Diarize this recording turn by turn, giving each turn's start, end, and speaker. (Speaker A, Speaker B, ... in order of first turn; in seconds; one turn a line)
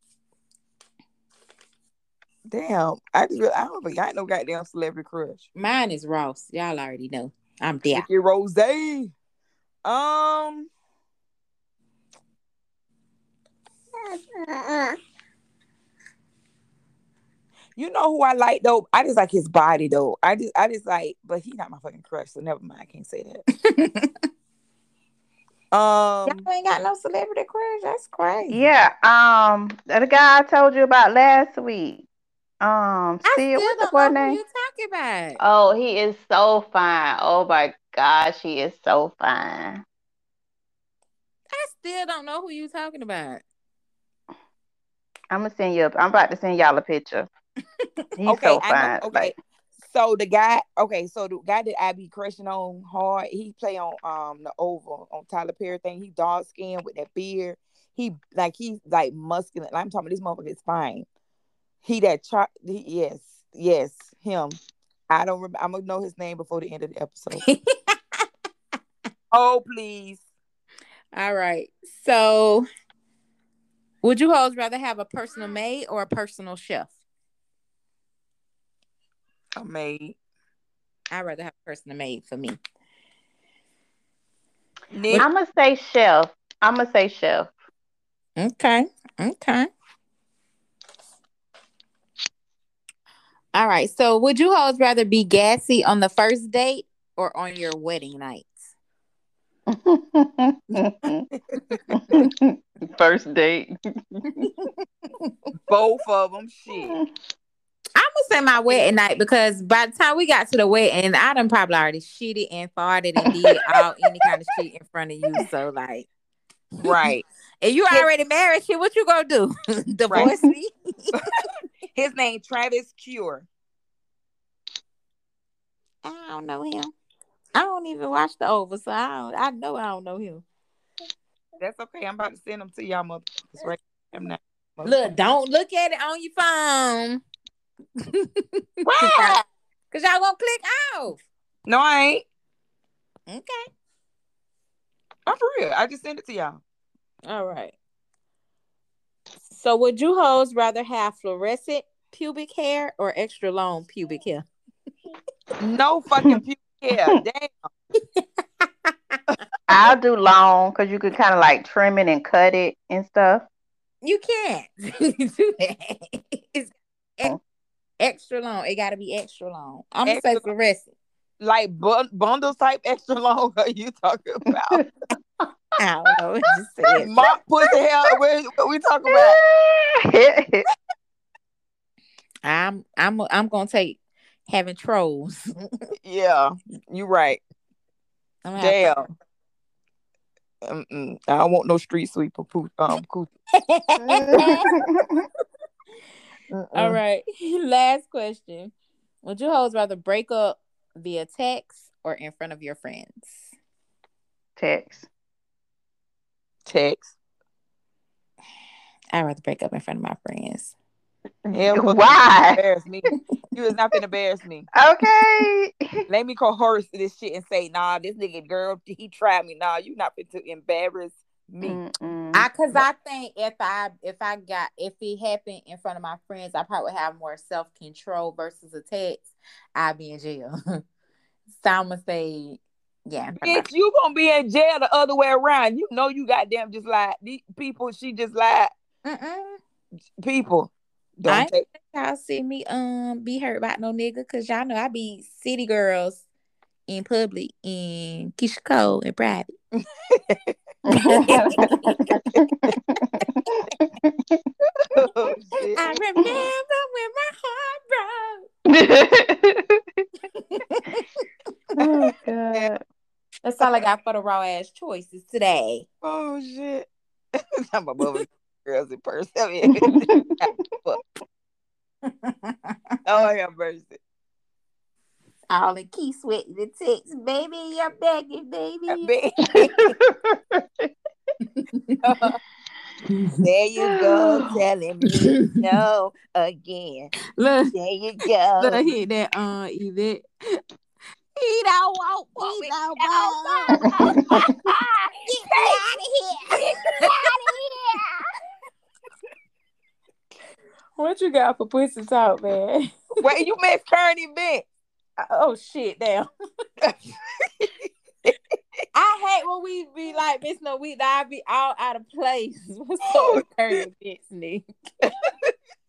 Speaker A: 2.5-5.5
Speaker B: 5.5-8.1
Speaker A: 7.9-9.1
Speaker A: 9.8-10.7
Speaker A: 17.8-23.4
Speaker B: 23.6-24.1
Speaker A: 25.7-26.4
Speaker B: 26.3-28.6
Speaker C: 28.5-32.1
Speaker C: 32.6-34.4
Speaker B: 33.2-35.4
Speaker C: 35.4-39.8
Speaker B: 41.5-43.4
Speaker C: 45.3-47.3
Speaker C: 48.2-49.3
Speaker A: 48.3-61.1
Speaker A: 61.8-64.6
Speaker A: 65.1-67.4
Speaker B: 67.4-68.2
Speaker A: 69.3-70.2
Speaker B: 71.1-72.7
Speaker B: 74.0-76.9
Speaker A: 79.6-80.2
Speaker B: 81.1-82.6
Speaker A: 84.9-85.3
Speaker C: 85.2-87.5
Speaker B: 88.4-89.7
Speaker B: 93.5-98.6
Speaker C: 99.7-101.3
Speaker A: 101.5-101.8
Speaker C: 101.9-104.5
Speaker A: 105.7-107.0
Speaker C: 106.8-107.0
Speaker B: 108.0-116.1
Speaker A: 116.8-117.2
Speaker B: 117.6-121.2
Speaker C: 120.2-120.5
Speaker A: 122.0-123.5
Speaker B: 126.0-126.9
Speaker B: 127.5-130.4
Speaker A: 131.6-135.2
Speaker B: 134.8-137.2
Speaker B: 138.1-139.4
Speaker A: 138.8-139.4
Speaker B: 139.9-141.2
Speaker A: 141.7-142.2
Speaker B: 143.3-143.6
Speaker A: 145.3-146.6
Speaker B: 147.3-147.8
Speaker B: 149.5-154.4
Speaker A: 155.6-157.7
Speaker B: 158.1-159.2
Speaker C: 159.7-163.5
Speaker B: 164.0-167.4
Speaker B: 168.0-170.9
Speaker A: 170.1-170.4
Speaker A: 171.4-174.8
Speaker B: 175.8-177.1
Speaker A: 177.0-179.4
Speaker C: 179.1-180.7
Speaker B: 182.4-185.7
Speaker A: 186.0-187.4
Speaker B: 188.4-189.1
Speaker A: 188.6-189.1
Speaker A: 190.7-193.3
Speaker B: 193.6-194.7
Speaker C: 194.0-195.3
Speaker A: 196.5-197.0
Speaker B: 196.8-198.7
Speaker B: 199.2-203.5
Speaker C: 204.6-205.1
Speaker A: 206.7-207.1
Speaker B: 209.1-210.8
Speaker A: 211.5-214.7
Speaker C: 211.7-212.6
Speaker C: 214.7-216.0
Speaker A: 216.1-221.8
Speaker C: 221.6-222.5
Speaker B: 222.3-230.6
Speaker B: 231.5-233.7
Speaker A: 233.4-238.7
Speaker B: 239.1-239.6
Speaker A: 240.2-240.7
Speaker A: 241.2-241.7
Speaker B: 241.2-246.3
Speaker B: 246.9-249.5
Speaker A: 250.1-250.6
Speaker C: 250.9-254.5
Speaker B: 251.0-252.0
Speaker A: 251.2-252.4
Speaker A: 254.9-255.9
Speaker B: 255.8-258.5
Speaker C: 258.7-259.8
Speaker B: 260.5-261.1
Speaker C: 261.8-262.8
Speaker B: 263.4-265.9
Speaker A: 266.0-271.0
Speaker C: 269.8-270.4
Speaker B: 272.1-273.0
Speaker A: 273.1-274.0
Speaker B: 275.5-279.1
Speaker A: 278.9-279.9
Speaker C: 279.5-280.9
Speaker B: 281.4-282.2
Speaker A: 282.0-282.4
Speaker A: 283.4-287.1
Speaker C: 283.8-284.5
Speaker B: 285.2-285.5
Speaker B: 287.4-287.7
Speaker A: 287.7-288.9
Speaker B: 288.6-290.6
Speaker B: 291.4-294.5
Speaker A: 292.4-294.0
Speaker C: 293.8-294.4
Speaker B: 295.2-298.0
Speaker A: 295.4-295.8
Speaker A: 296.6-297.2
Speaker B: 301.0-302.9
Speaker A: 303.2-304.7
Speaker B: 305.2-306.3
Speaker A: 306.8-308.4
Speaker B: 308.9-314.6
Speaker A: 313.1-313.8
Speaker A: 315.1-315.5